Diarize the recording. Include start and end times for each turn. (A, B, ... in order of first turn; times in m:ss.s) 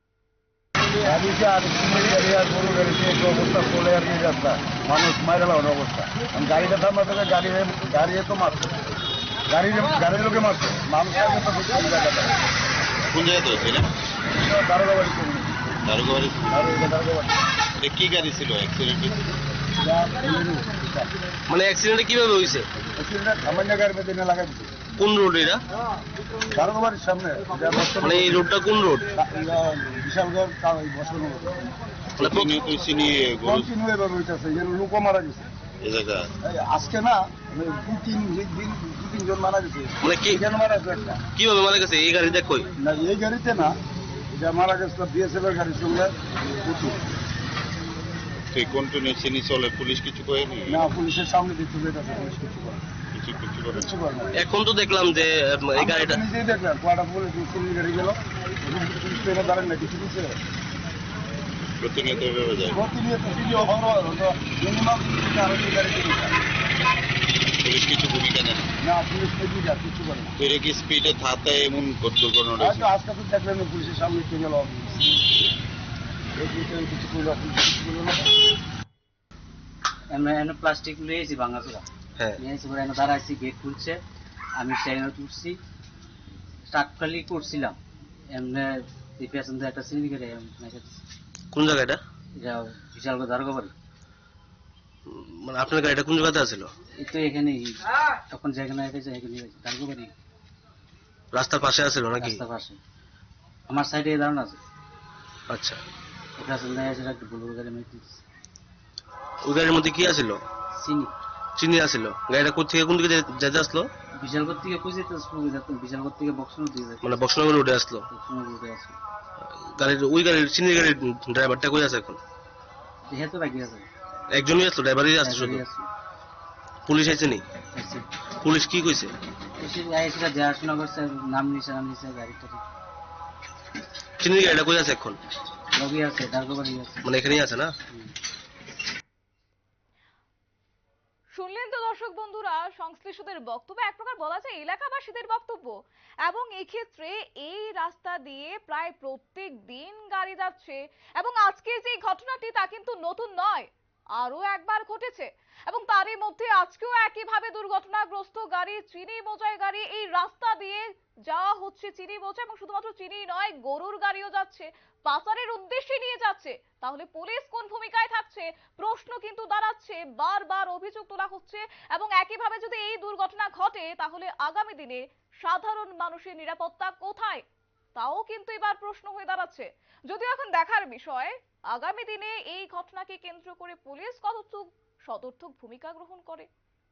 0:01.0-0:08.7 A
0:09.5-0:12.4 A
0:13.1-0:13.9 B
0:14.3-0:15.7 A
0:15.9-0:16.7 B
0:16.5-0:17.4 A
0:17.8-0:19.3 B
0:19.8-0:21.1 A
0:21.5-0:22.7 C
0:23.0-0:24.7 A
0:25.0-0:25.6 C
0:26.5-0:28.4 A
0:28.0-0:29.1 C
0:29.2-0:31.7 A
0:32.2-0:32.5 C
0:32.2-0:33.7 B
0:33.4-0:35.5 A
0:35.8-0:36.3 B
0:36.4-0:41.2 A
0:40.0-0:40.4 C
0:41.4-0:42.7 C
0:42.8-0:43.7 A
0:44.3-0:47.0 A
0:48.5-0:50.8 B
0:50.7-0:52.8 A
0:53.1-0:53.9 B
0:53.8-0:54.4 A
0:54.4-0:56.2 C
0:55.8-1:00.3 A
1:01.8-1:02.8 B
1:02.7-1:06.4 A
1:07.6-1:08.7 B
1:08.8-1:10.4 A
1:10.4-1:12.9 B
1:12.6-1:15.3 A
1:16.4-1:18.4 A
1:20.1-1:24.0 D
1:24.6-1:25.6 D
1:26.7-1:27.8 D
1:28.3-1:31.0 D
1:31.5-1:32.0 C
1:32.4-1:33.7 D
1:35.1-1:36.7 C
1:37.0-1:40.1 D
1:41.3-1:42.4 C
1:42.1-1:42.8 D
1:43.7-1:44.6 D
1:45.5-1:45.8 C
1:46.4-1:48.2 D
1:49.4-1:50.4 C
1:50.7-1:51.2 D
1:51.6-1:53.9 C
1:54.2-1:57.3 D
1:57.0-1:58.1 C
1:58.1-1:59.0 D
1:59.5-2:02.2 C
2:03.1-2:03.9 D
2:04.3-2:05.6 C
2:05.2-2:05.9 D
2:06.9-2:07.4 C
2:07.7-2:08.1 D
2:08.4-2:09.1 C
2:09.6-2:12.6 D
2:14.2-2:15.2 C
2:15.7-2:17.1 D
2:17.0-2:17.8 C
2:21.4-2:57.4 E
2:58.0-3:06.5 E